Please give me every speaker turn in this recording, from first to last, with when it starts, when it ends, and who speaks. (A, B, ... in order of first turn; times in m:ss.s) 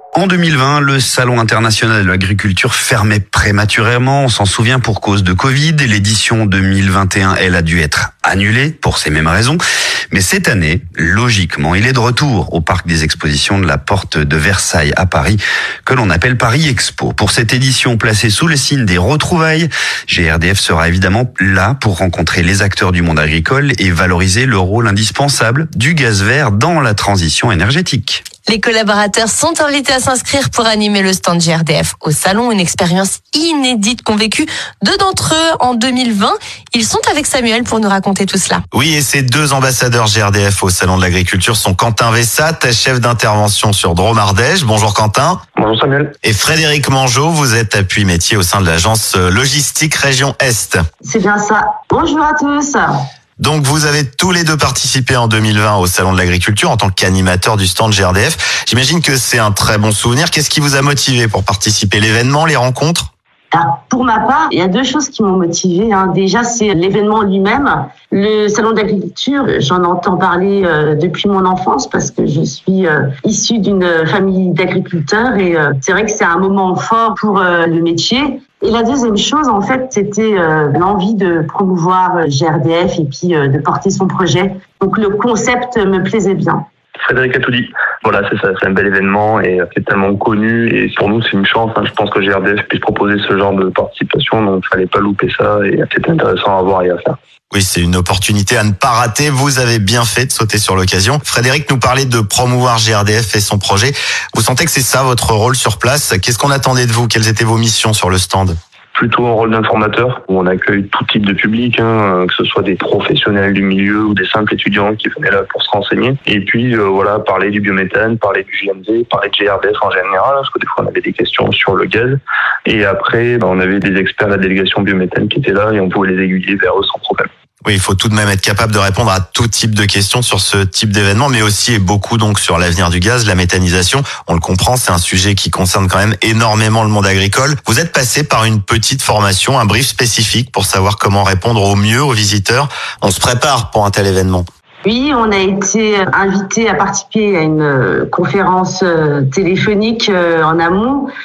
0:00.1-0:09.6 A
0:10.1-0:28.3 A
0:28.4-0:38.6 B
0:38.7-0:45.4 C
0:45.6-0:46.1 D
0:46.2-0:50.8 C
0:51.0-0:52.9 E
0:53.4-1:03.1 C
1:03.5-1:26.6 E
1:27.0-1:37.2 D
1:37.5-1:48.6 C
1:48.9-2:07.3 D
2:07.6-2:24.5 C
2:24.8-2:31.1 E